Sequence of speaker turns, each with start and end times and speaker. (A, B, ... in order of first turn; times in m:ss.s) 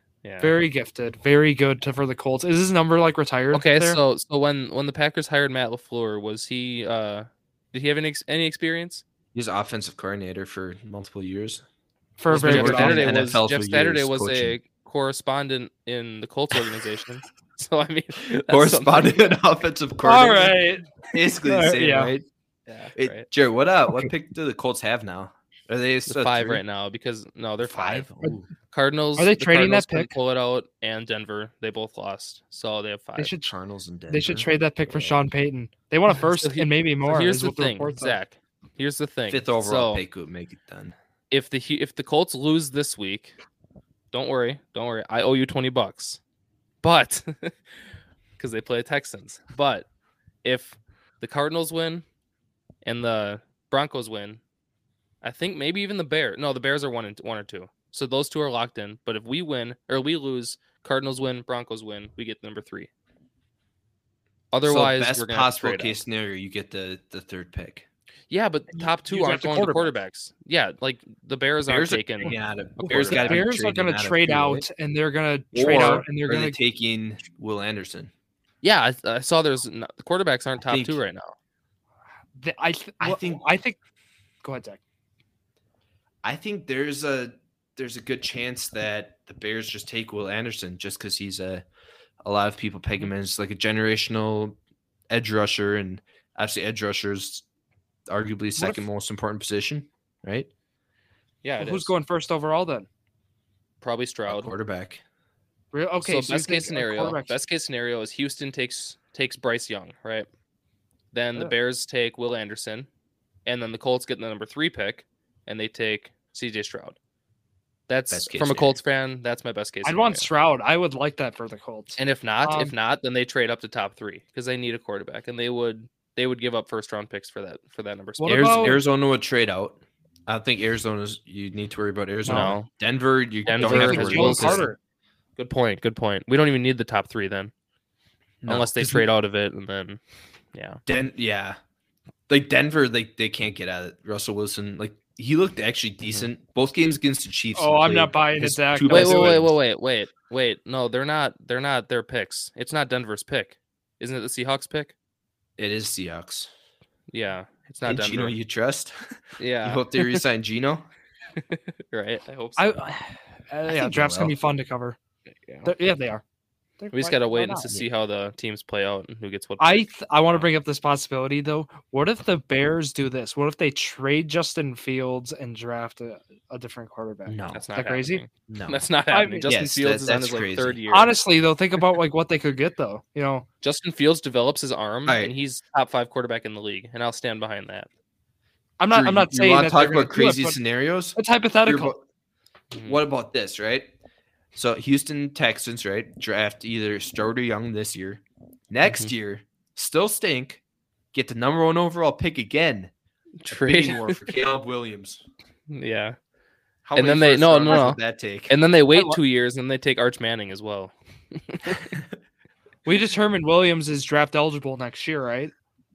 0:00.2-0:00.5 A
0:00.4-0:04.0 B
0:03.5-0:09.0 A
0:09.3-0:11.6 C
0:12.2-0:13.1 B
0:12.3-0:14.6 C
0:12.3-0:19.4 A
0:18.5-0:22.3 C
0:20.0-0:22.1 B
0:22.7-0:23.3 A
0:23.0-0:26.6 C
0:26.1-0:33.4 A
0:27.6-0:28.5 C
0:29.2-0:30.1 B
0:33.2-0:33.5 B
0:33.4-0:35.2 C
0:34.1-0:38.2 B
0:36.3-0:40.0 A
0:39.3-0:41.0 C
0:41.3-0:43.4 A
0:44.1-0:46.2 A
0:46.8-0:47.8 A
0:48.4-0:49.9 A
0:50.4-0:52.0 A
0:52.8-0:54.4 A
0:55.2-1:02.9 A
1:04.5-1:06.0 A
1:04.6-1:07.9 C
1:08.3-1:13.4 A
1:08.8-1:09.9 B
1:11.7-1:14.6 C
1:13.1-1:16.6 B
1:15.5-1:18.1 C
1:15.6-1:16.1 A
1:18.6-1:21.3 A
1:20.7-1:21.0 C
1:22.4-1:23.8 B
1:23.0-1:23.4 C
1:24.4-1:24.8 B
1:26.2-1:31.6 C
1:32.2-1:34.6 C
1:35.1-1:37.4 C
1:38.1-1:40.5 C
1:38.6-1:38.8 B
1:41.4-1:41.9 A
1:41.6-1:42.9 B
1:43.8-1:44.5 A
1:44.3-1:45.0 C
1:45.7-1:47.4 B
1:46.0-1:50.3 A
1:51.1-1:52.9 A
1:53.5-1:57.0 A
1:57.9-2:00.3 A
1:58.1-1:58.8 C
1:59.8-2:02.8 B
2:02.0-2:08.8 A
2:08.2-2:08.8 B
2:08.3-2:14.7 C
2:12.2-2:12.6 B
2:12.3-2:12.7 A
2:13.5-2:14.7 A
2:13.5-2:14.8 B
2:15.4-2:17.5 A
2:18.4-2:19.1 C
2:18.5-2:20.0 A
2:20.5-2:20.8 A
2:20.9-2:21.6 C
2:22.3-2:29.6 C
2:27.6-2:29.4 B
2:28.9-2:34.9 A
2:35.6-2:36.5 C
2:37.1-2:38.4 A
2:37.8-2:40.9 C
2:39.4-2:40.2 A
2:41.4-2:42.8 A
2:42.6-2:45.0 B
2:43.7-2:44.4 C
2:45.4-2:45.7 A
2:45.6-2:46.2 B
2:46.8-2:47.8 B
2:46.9-2:50.5 A
2:49.6-2:58.2 B
2:57.3-2:57.6 C
2:57.5-3:01.1 A
2:58.5-2:58.8 C
2:59.1-2:59.6 B
2:59.4-3:00.8 C
3:00.9-3:03.5 B
3:03.6-3:07.9 A
3:05.1-3:05.3 C
3:08.8-3:10.6 B
3:08.9-3:12.0 C
3:11.2-3:11.9 B
3:12.7-3:13.0 A
3:12.8-3:13.9 C
3:14.5-3:20.6 C
3:21.1-3:22.9 C
3:23.4-3:24.3 A
3:23.5-3:25.2 C
3:25.7-3:26.2 A
3:26.8-3:28.6 C
3:27.0-3:31.9 A
3:28.9-3:29.2 B
3:31.8-3:32.1 C
3:32.9-3:35.5 B